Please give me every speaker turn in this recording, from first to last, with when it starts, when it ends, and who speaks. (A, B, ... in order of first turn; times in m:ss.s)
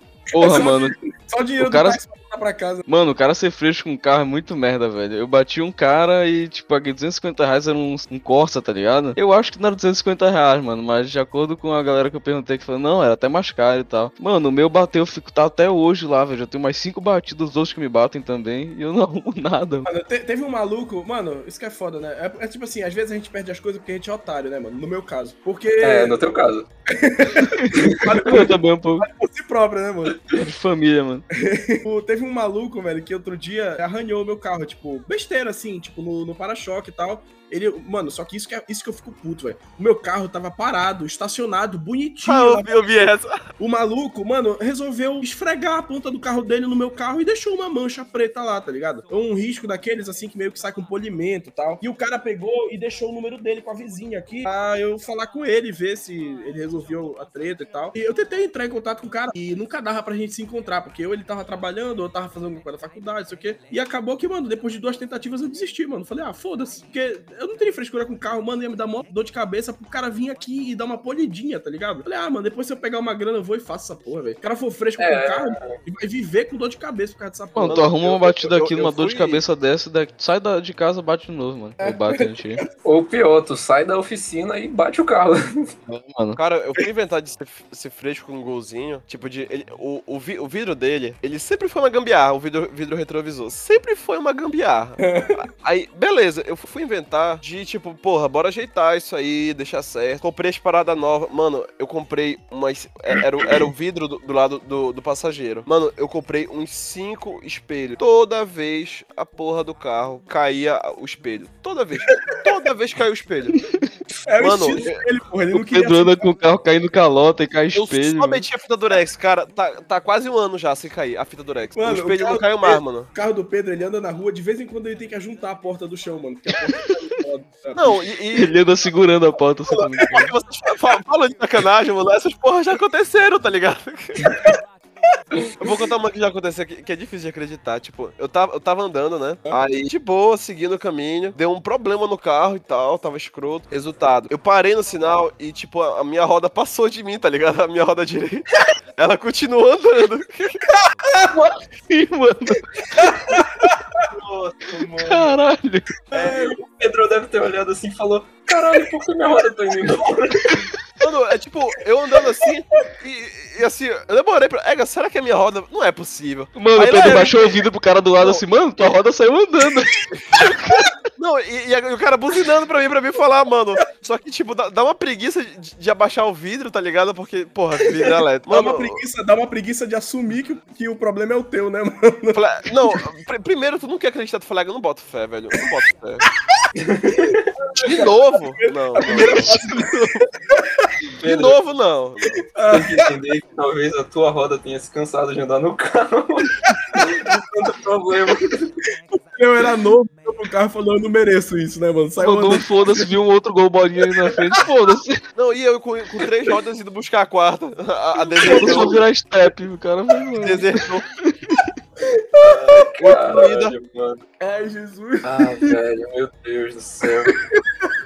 0:00.3-0:01.0 A
0:00.4-0:02.9 B
0:01.6-0:02.0 A
0:02.9-0:19.9 A
0:19.8-0:26.2 B
0:25.8-0:26.7 C
0:26.9-0:30.2 B
0:27.5-0:29.1 A
0:27.7-0:28.1 C
0:30.4-0:31.2 A
0:31.4-0:43.1 B
0:42.2-0:43.4 D
0:43.6-1:17.9 B
1:15.0-1:15.7 C
1:17.6-1:22.6 A
1:17.7-1:19.4 D
1:21.8-1:22.6 B
1:22.8-1:25.7 C
1:25.9-1:26.4 A
1:26.4-1:53.6 D
1:35.0-1:35.4 B
1:54.3-1:56.3 B
1:54.4-1:55.0 D
1:55.5-1:58.4 A
1:57.7-2:03.1 D
2:01.8-2:08.0 B
2:07.8-2:08.5 D
2:08.3-2:10.3 A
2:09.7-2:14.2 D
2:15.6-2:30.6 D
2:15.6-2:15.9 B
2:31.3-2:32.7 A
2:33.0-2:33.8 B
2:34.1-2:35.4 C
2:35.0-2:35.9 A
2:36.1-2:36.6 B
2:36.2-2:40.6 C
2:41.0-2:47.6 D
2:46.6-2:50.9 A
2:48.2-2:48.4 D
2:51.2-2:59.0 D
2:58.5-3:02.4 B
3:02.3-3:06.2 D
3:06.8-3:07.5 C
3:07.6-3:10.9 B
3:07.8-3:09.6 D
3:09.1-3:10.0 A
3:11.2-3:11.6 C
3:11.2-3:12.4 D
3:12.6-3:13.1 B
3:12.7-3:18.7 C
3:19.1-3:23.1 B
3:22.2-3:25.2 A
3:24.1-3:24.6 B
3:25.4-3:29.0 D
3:28.3-3:29.0 B
3:28.4-3:30.7 A
3:30.4-3:31.0 D
3:31.2-3:31.6 A
3:32.4-3:32.8 B
3:32.4-3:34.2 C
3:33.0-3:33.7 D
3:34.4-3:35.8 B
3:35.2-3:37.4 C
3:37.0-3:37.9 B